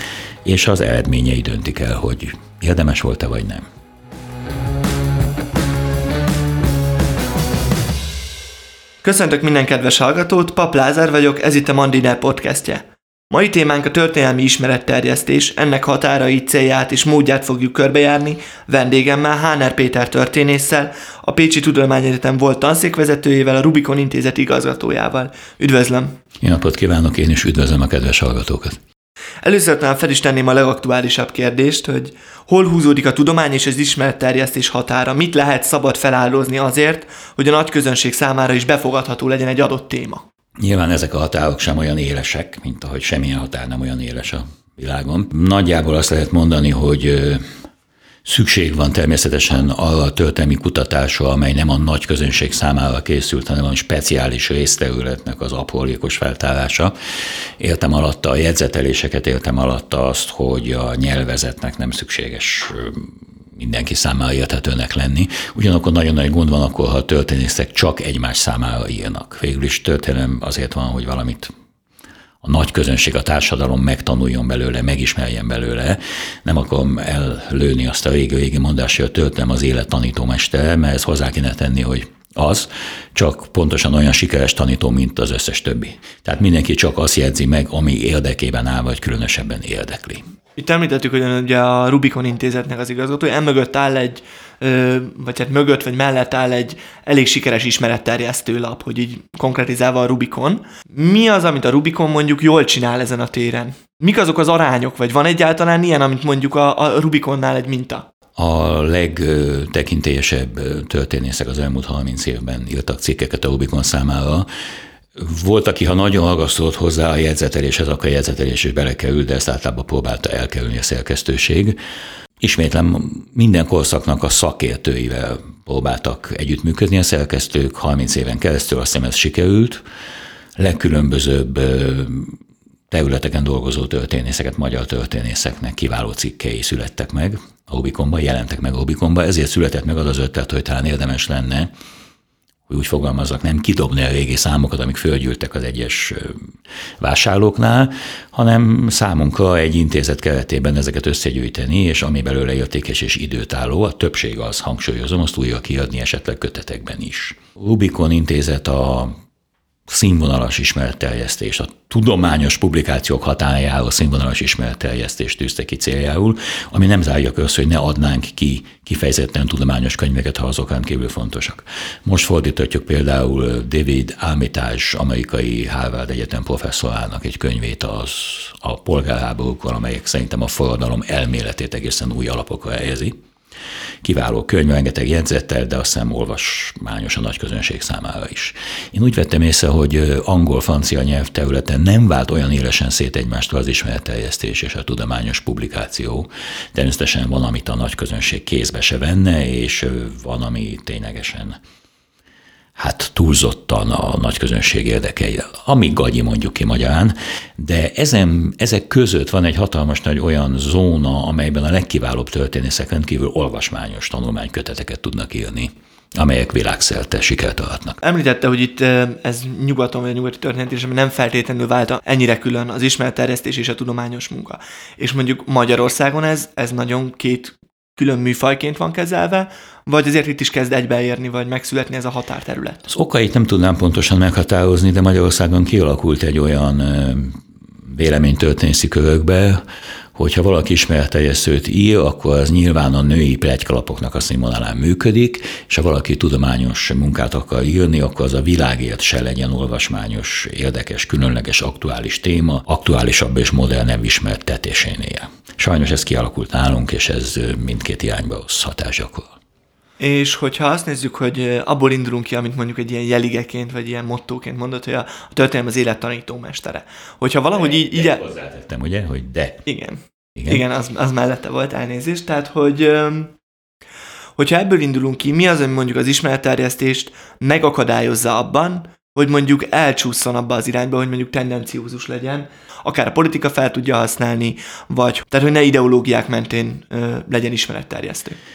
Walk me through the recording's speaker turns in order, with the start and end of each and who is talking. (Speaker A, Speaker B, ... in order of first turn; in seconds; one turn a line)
Speaker A: 0.5-3.7
Speaker B: 9.0-26.2
Speaker A: 26.4-28.8
Speaker B: 29.4-40.2
Speaker A: 40.6-47.4
Speaker A: 48.2-56.9
Speaker A: 57.6-71.5
Speaker A: 72.4-90.2
Speaker B: 90.6-108.1
Speaker A: 108.4-114.5
Speaker A: 115.2-121.8
Speaker A: 122.4-129.8
Speaker A: 130.6-132.4
Speaker A: 132.9-141.7
Speaker A: 142.7-146.4
Speaker A: 147.0-159.1
Speaker A: 159.9-183.2
Speaker A: 184.0-201.6
Speaker A: 202.8-218.0
Speaker B: 218.0-232.8
Speaker A: 232.9-239.6
Speaker A: 240.2-259.3
Speaker B: 260.0-268.2
Speaker A: 267.5-269.6
Speaker B: 269.6-273.3
Speaker B: 274.4-288.4